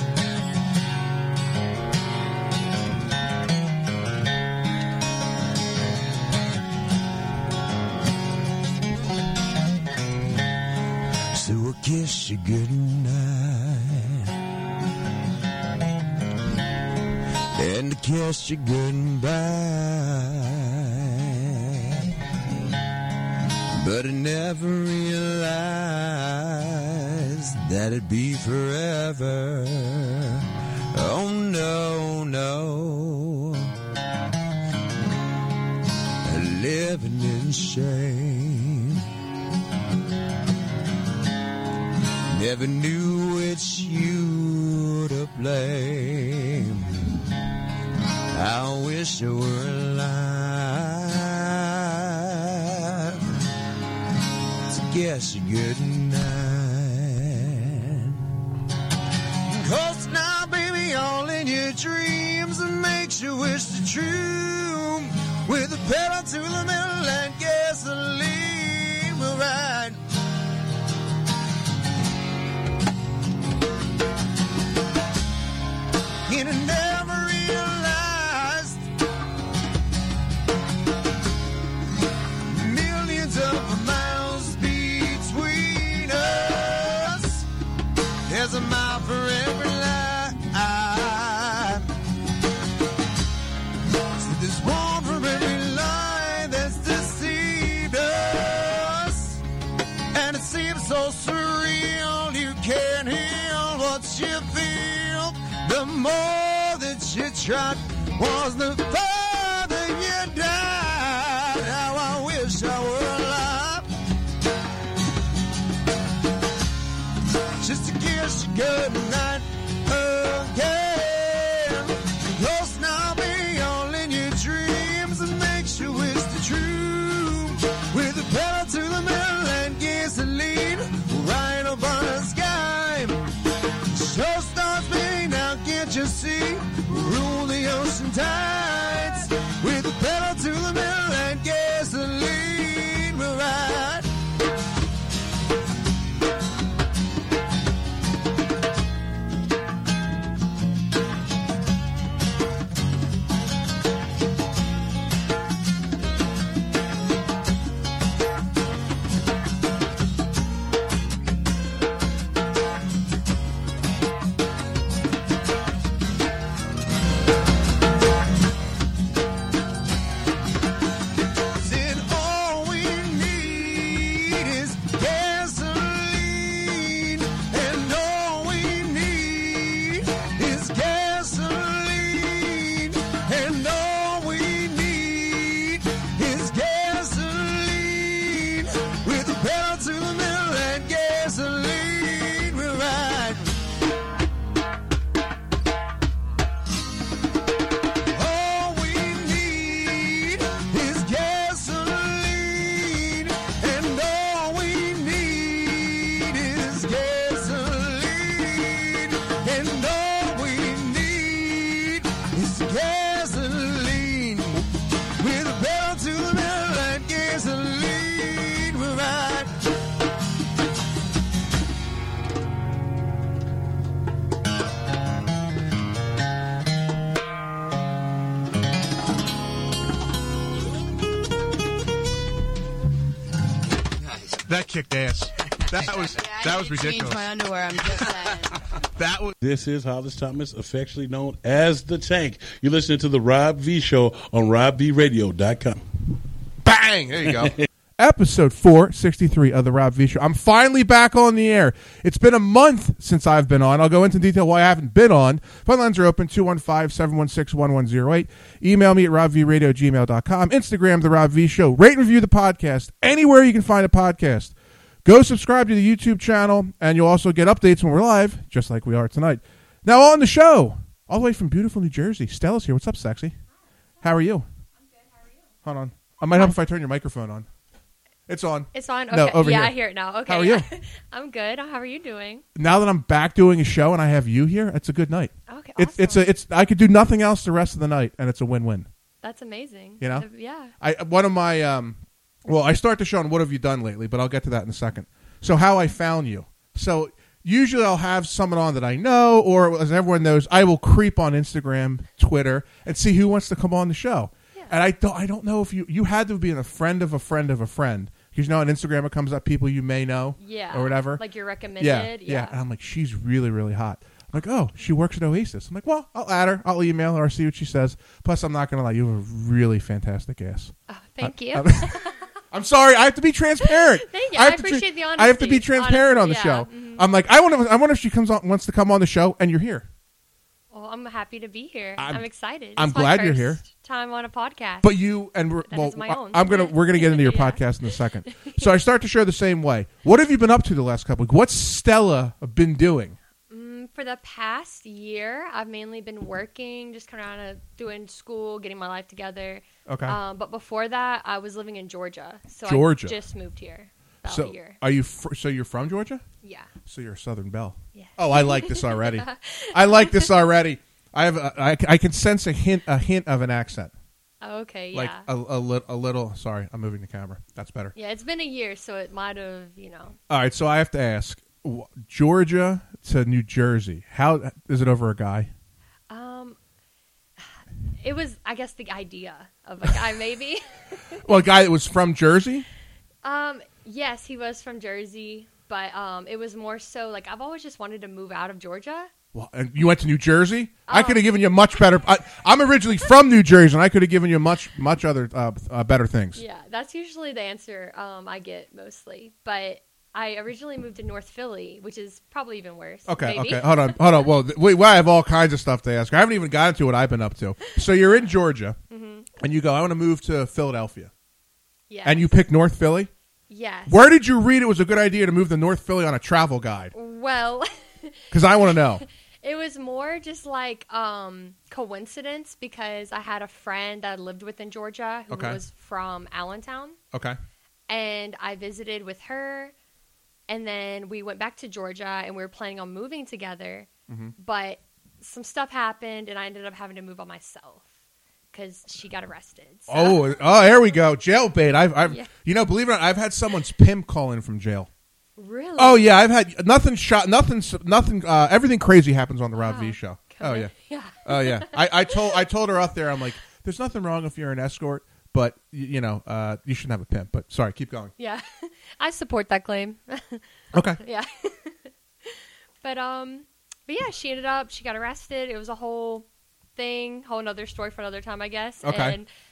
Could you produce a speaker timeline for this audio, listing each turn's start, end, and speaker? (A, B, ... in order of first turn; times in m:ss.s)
0:11.3-0:14.3 A
0:17.5-0:21.2 A
0:23.8-0:30.4 A
0:30.9-0:33.6 A
0:36.2-0:39.0 A
0:42.3-0:47.1 A
0:48.3-0:53.2 A
0:54.7-0:58.2 A
0:59.4-1:10.0 A
1:16.3-1:18.8 A
1:22.5-1:27.5 A
1:28.3-1:31.8 A
1:34.2-1:39.4 A
1:40.1-1:53.9 A
1:57.6-2:13.3 A
2:13.9-2:24.1 A
2:51.6-3:13.6 A
3:18.1-3:34.6 A
3:35.2-3:39.5 A
3:54.5-3:55.3 B
3:55.7-3:56.2 C
3:55.8-3:57.2 B
3:56.2-3:58.5 D
3:59.0-3:59.3 C
3:59.4-4:05.8 E
4:06.6-4:24.5 C
4:25.0-4:33.4 C
4:34.0-4:34.4 C
4:35.6-4:37.5 C
4:38.3-4:40.7 C
4:38.7-4:42.4 F
4:42.5-4:48.9 C
4:45.5-4:46.3 F
4:49.2-4:50.7 F
4:50.0-4:50.3 C
4:50.8-5:11.2 C
5:10.4-5:12.6 F
5:11.8-5:22.0 C
5:20.9-5:22.2 F
5:22.5-5:29.9 C
5:23.6-5:27.0 F
5:30.7-5:35.0 F
5:32.0-5:32.2 C
5:32.8-5:33.6 C
5:34.8-5:43.2 C
5:35.7-5:37.6 F
5:38.2-5:38.6 F
5:43.5-5:54.8 F
5:49.9-5:50.2 C
5:52.6-5:53.2 C
5:54.2-5:56.2 C
5:56.4-5:56.7 F
5:56.8-6:03.9 C
5:57.9-6:00.3 F
6:04.4-6:05.2 F
6:04.9-6:07.9 C
6:08.0-6:10.2 F
6:10.3-6:15.5 C
6:16.1-6:16.6 F
6:18.0-6:21.2 F
6:21.2-6:22.7 C
6:23.2-6:29.1 F
6:29.3-6:36.4 C
6:30.9-6:31.5 F
6:36.3-6:44.3 F
6:43.1-6:48.8 C
6:47.8-6:48.3 F
6:48.9-6:49.4 F
6:49.4-6:51.1 C
6:51.9-6:52.3 F
6:52.0-6:53.1 C
6:53.5-6:54.1 F
6:53.9-6:56.9 C
6:56.9-7:07.0 F
6:58.3-6:59.0 C
7:05.3-7:05.6 C
7:07.9-7:09.7 F
7:10.5-7:17.9 F
7:14.1-7:14.3 C
7:18.5-7:20.4 F
7:19.9-7:24.9 C
7:22.0-7:22.3 F
7:25.4-7:26.1 F
7:25.8-7:30.7 C
7:29.6-7:32.4 F
7:31.2-7:38.1 C
7:38.2-7:40.4 F
7:40.7-7:41.0 C
7:41.0-7:49.3 F
7:48.8-7:49.2 C